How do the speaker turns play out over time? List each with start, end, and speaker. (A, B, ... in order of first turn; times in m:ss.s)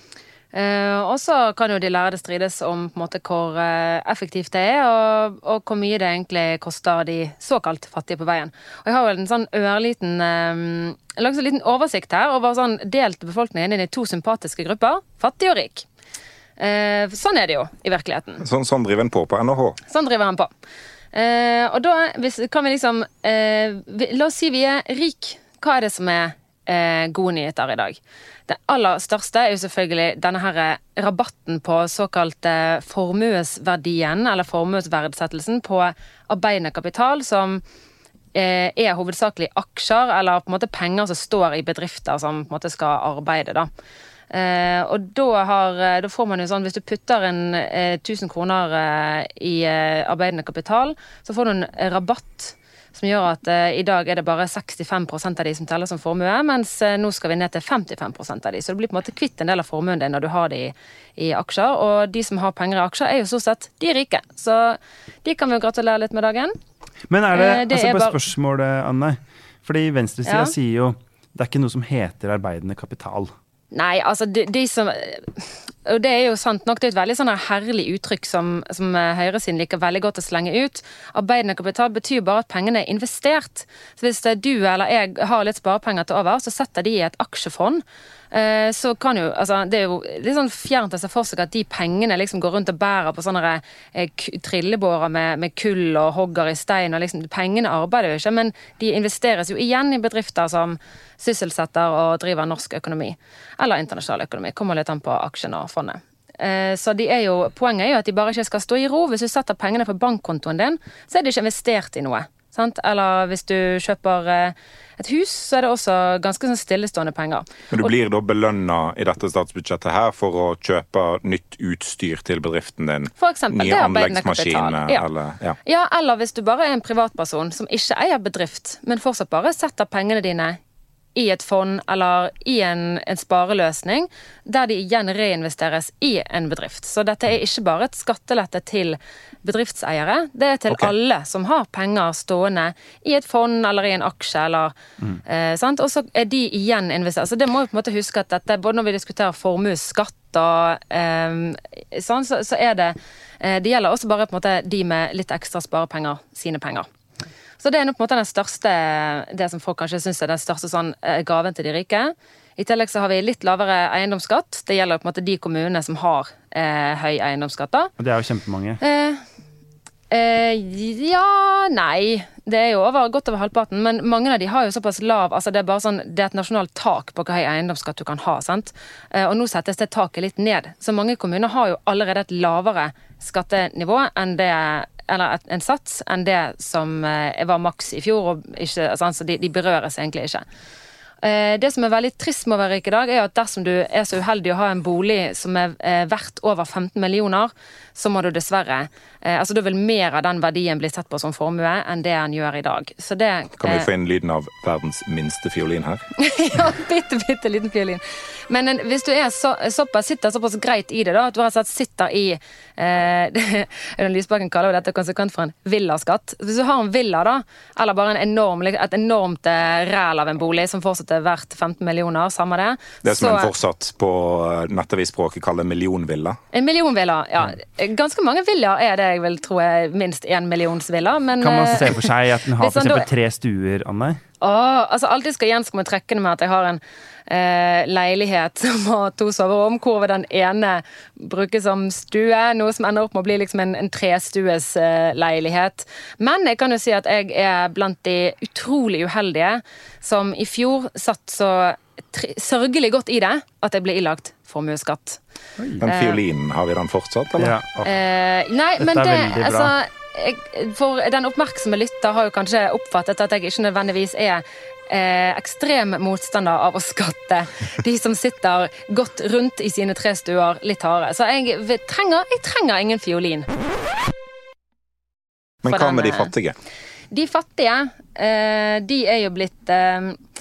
0:00.5-0:15.9 A
0:16.6-0:18.4 A
0:18.4-0:19.8 B
0:19.9-0:20.5 A
0:21.1-0:37.6 A
0:38.4-0:43.7 A
0:44.3-1:06.5 A
1:07.1-1:13.3 C
1:07.3-1:08.2 A
1:10.2-1:10.5 A
1:13.7-1:57.9 A
1:57.7-2:05.6 B
2:03.2-2:05.0 A
2:05.6-2:10.6 A
2:11.2-2:24.7 A
2:25.3-2:36.9 A
2:37.6-2:47.9 A
2:48.0-2:48.8 C
2:48.8-2:49.2 A
2:50.1-3:10.4 A
3:11.2-3:23.9 A
3:23.6-3:26.0 B
3:26.2-3:43.5 A
3:43.0-3:46.4 B
3:46.5-3:52.0 A
3:51.4-3:54.2 C
3:52.6-3:53.0 A
3:54.4-4:15.2 A
4:15.6-4:15.8 C
4:15.8-4:17.5 B
4:15.9-4:16.2 A
4:17.4-4:17.9 C
4:17.8-4:33.5 A
4:18.8-4:19.8 C
4:35.6-4:36.6 B
4:35.7-4:36.3 A
4:37.1-4:40.2 A